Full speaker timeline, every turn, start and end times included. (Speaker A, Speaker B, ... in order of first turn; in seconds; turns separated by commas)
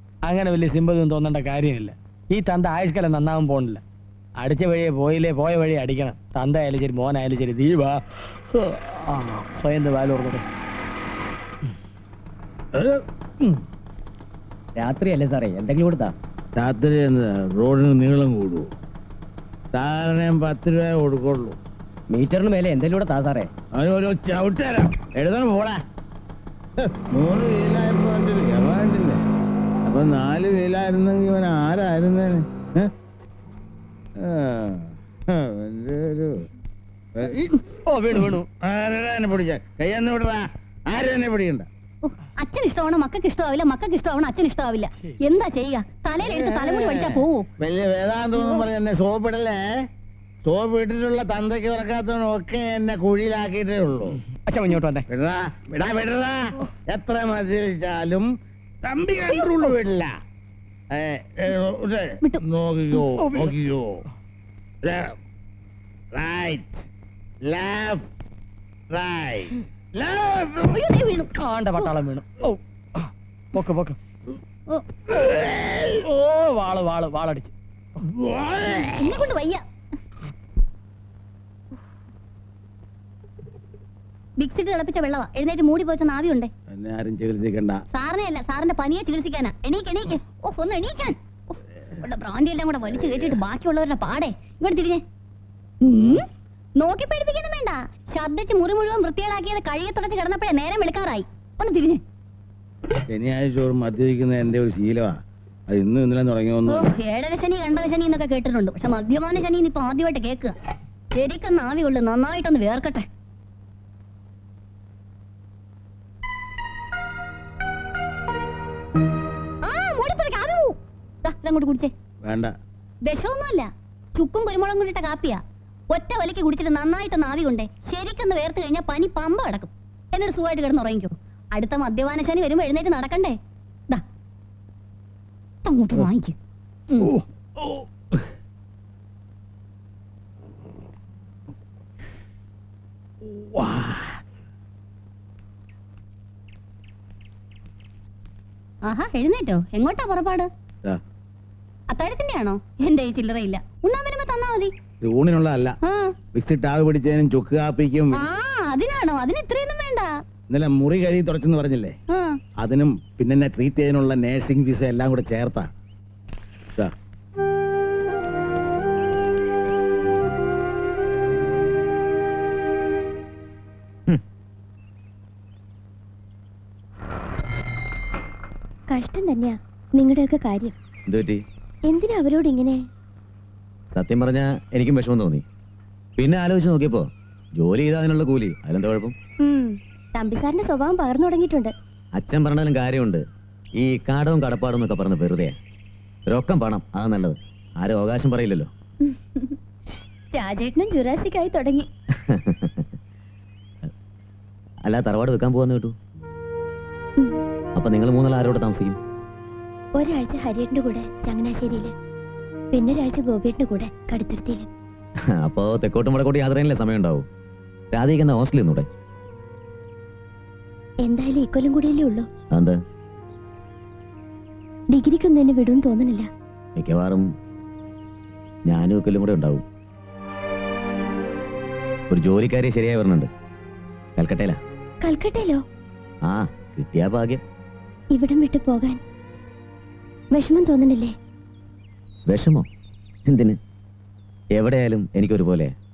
Speaker A: 0.2-3.8, Speaker A: 4.4-8.0, Speaker A: 8.5-10.4, Speaker B: 12.8-13.6, Speaker C: 14.8-16.1, Speaker B: 16.5-18.7, Speaker B: 19.7-21.6, Speaker C: 22.1-23.4, Speaker B: 23.7-25.8, Speaker B: 26.8-29.2, Speaker B: 29.8-32.9, Speaker B: 34.2-36.3, Speaker B: 37.2-41.7, Speaker A: 37.9-38.5, Speaker D: 42.0-47.5, Speaker B: 46.2-49.6, Speaker D: 48.3-48.6, Speaker B: 50.4-54.2, Speaker A: 54.5-55.0, Speaker B: 55.1-58.3, Speaker B: 58.8-60.1, Speaker B: 60.9-64.0, Speaker A: 63.2-63.5, Speaker B: 64.8-65.1, Speaker B: 66.1-66.8, Speaker B: 67.4-68.0, Speaker B: 68.9-70.8, Speaker D: 70.7-72.0, Speaker A: 71.4-72.6, Speaker A: 73.5-74.0, Speaker B: 75.5-75.8, Speaker A: 76.0-77.5, Speaker B: 78.0-78.9, Speaker D: 79.0-79.6, Speaker D: 84.4-86.5, Speaker B: 86.7-87.8, Speaker D: 87.9-95.0, Speaker D: 95.8-96.2, Speaker D: 96.8-102.0, Speaker B: 103.1-105.2, Speaker B: 105.7-106.9, Speaker D: 106.7-110.5, Speaker D: 111.1-113.0, Speaker D: 119.6-121.9, Speaker B: 122.2-122.5, Speaker D: 123.0-133.3, Speaker D: 135.6-136.3, Speaker B: 143.5-144.1, Speaker D: 148.8-150.5, Speaker D: 151.9-154.7, Speaker B: 155.0-155.8, Speaker D: 155.8-156.1, Speaker B: 156.3-158.3, Speaker D: 158.1-160.1, Speaker B: 160.5-161.9, Speaker B: 162.6-165.7, Speaker E: 178.9-180.7, Speaker F: 181.1-181.4, Speaker E: 181.9-182.8, Speaker F: 183.9-185.4, Speaker F: 186.2-189.1, Speaker E: 189.4-191.7, Speaker F: 192.2-193.2, Speaker F: 193.8-195.6, Speaker F: 196.3-198.7, Speaker F: 202.3-202.8, Speaker F: 204.8-205.9, Speaker F: 207.8-209.0, Speaker E: 210.0-211.9, Speaker E: 212.7-214.7, Speaker F: 215.4-217.2, Speaker F: 217.9-218.9, Speaker E: 221.0-222.3, Speaker F: 222.5-222.8, Speaker E: 224.9-226.3, Speaker F: 226.8-227.3, Speaker F: 228.7-229.6, Speaker F: 232.1-233.3, Speaker F: 234.2-234.6, Speaker E: 235.0-235.6, Speaker F: 236.2-237.4, Speaker E: 238.1-239.0, Speaker E: 240.3-241.1, Speaker F: 242.3-242.7, Speaker F: 243.3-243.6, Speaker F: 244.6-245.7